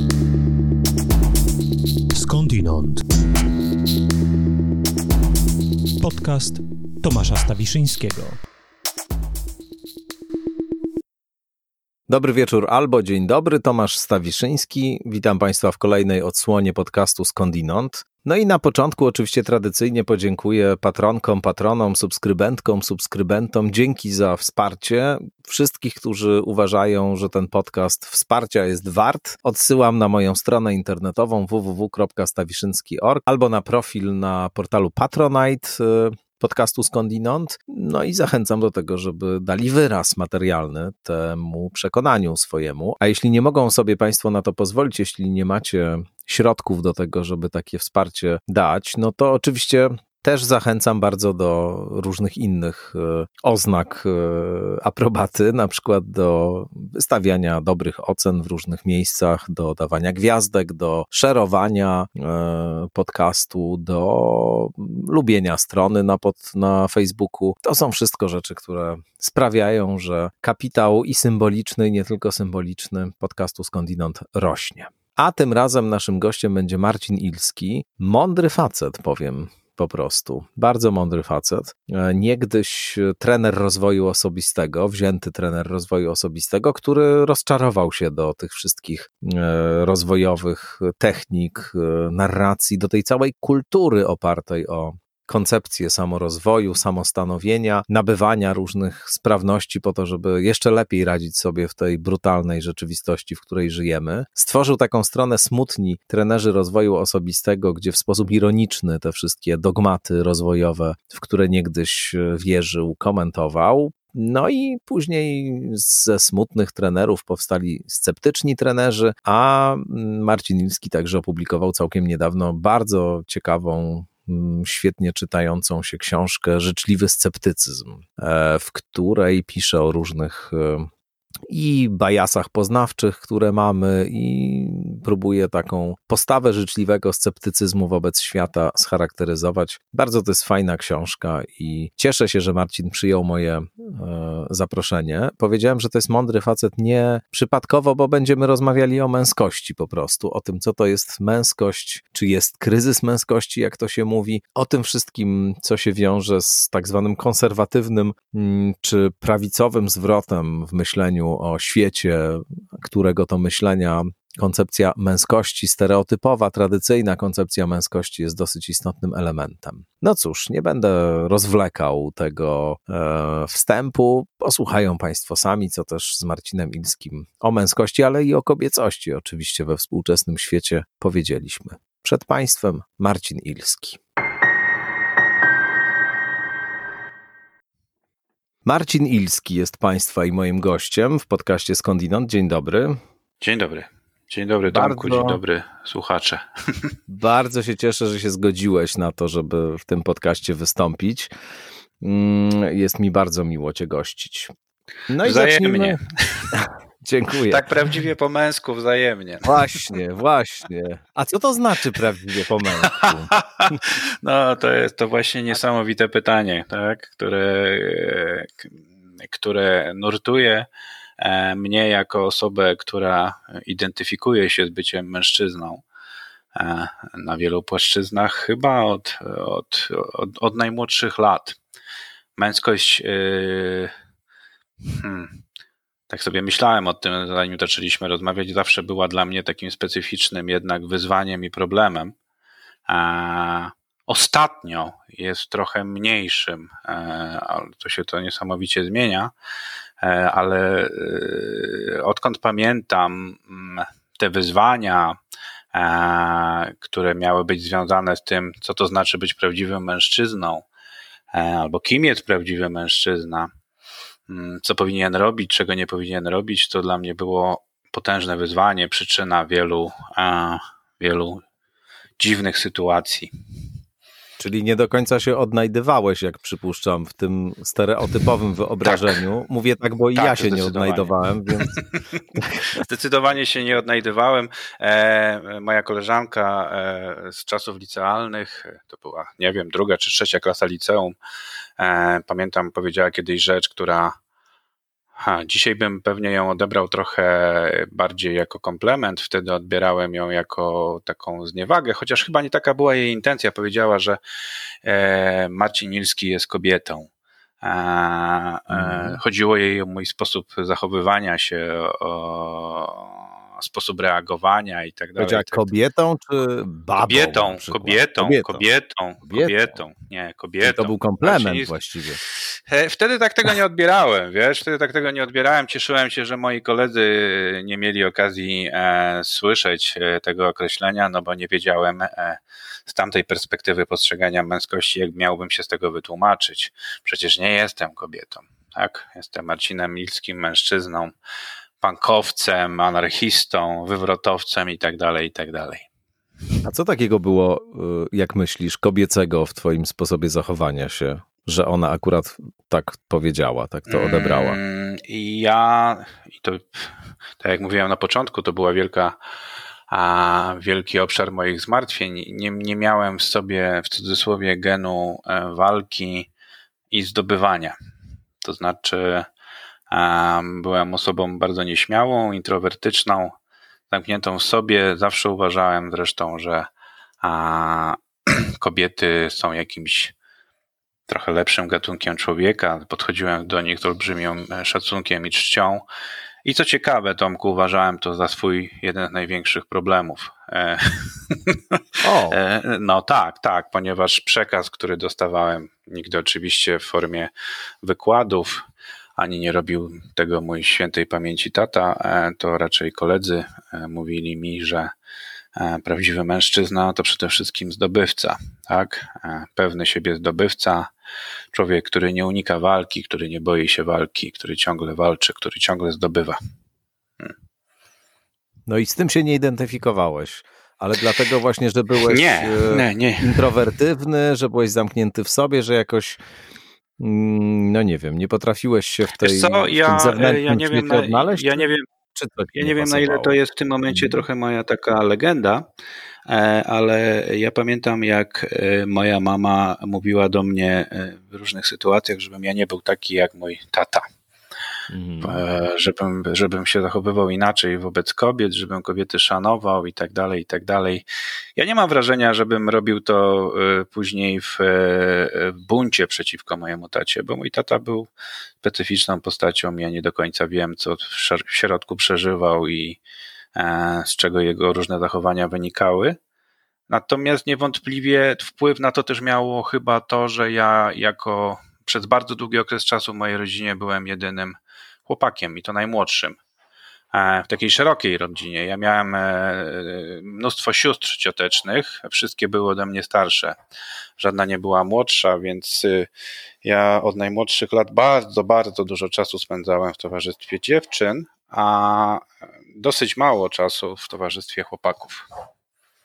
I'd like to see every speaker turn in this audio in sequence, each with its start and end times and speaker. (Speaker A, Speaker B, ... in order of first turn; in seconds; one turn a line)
Speaker A: 2.1-3.0
Speaker A: 6.0-8.4
Speaker B: 12.1-130.9
Speaker B: 131.5-184.0
Speaker B: 188.7-193.0
Speaker C: 193.4-196.8
Speaker B: 194.7-195.4
Speaker B: 197.1-201.3
Speaker B: 202.0-204.5
Speaker B: 205.1-206.0
Speaker C: 205.2-206.6
Speaker B: 206.5-207.7
Speaker C: 207.5-209.9
Speaker B: 209.4-213.8
Speaker C: 212.9-220.7
Speaker C: 221.2-225.8
Speaker C: 226.6-231.6
Speaker C: 232.4-233.9
Speaker C: 234.8-235.4
Speaker C: 236.1-242.1
Speaker C: 242.9-249.3
Speaker C: 250.0-255.2
Speaker C: 255.7-260.7
Speaker C: 261.3-263.5
Speaker C: 264.3-271.4
Speaker C: 272.2-273.3
Speaker B: 274.4-281.8
Speaker C: 278.9-279.2
Speaker C: 280.2-282.2
Speaker B: 282.4-282.7
Speaker C: 282.7-291.2
Speaker C: 291.8-294.1
Speaker C: 295.2-304.2
Speaker C: 304.8-307.1
Speaker C: 307.6-315.7
Speaker B: 308.7-309.2
Speaker B: 315.2-318.6
Speaker C: 317.0-321.7
Speaker B: 319.3-319.7
Speaker B: 320.6-322.2
Speaker C: 322.6-341.1
Speaker C: 341.8-345.9
Speaker B: 346.6-354.6
Speaker C: 353.9-359.1
Speaker C: 359.9-366.3
Speaker C: 366.9-367.8
Speaker C: 368.4-369.3
Speaker C: 369.9-373.4
Speaker C: 373.9-376.7
Speaker C: 377.2-380.1
Speaker C: 381.1-385.8
Speaker C: 386.4-397.3
Speaker B: 392.0-392.4
Speaker C: 397.8-398.6
Speaker C: 399.2-404.9
Speaker C: 405.6-410.9
Speaker C: 411.5-416.4
Speaker B: 418.7-426.2
Speaker C: 422.1-423.5
Speaker B: 427.0-433.4
Speaker C: 429.2-431.9
Speaker C: 432.6-435.6
Speaker B: 433.9-434.2
Speaker C: 436.3-444.1
Speaker B: 444.9-445.4
Speaker C: 445.2-451.0
Speaker C: 451.6-458.1
Speaker C: 458.6-463.0
Speaker C: 463.6-466.2
Speaker C: 466.9-476.4
Speaker C: 477.1-483.6
Speaker C: 484.2-486.1
Speaker C: 486.6-495.3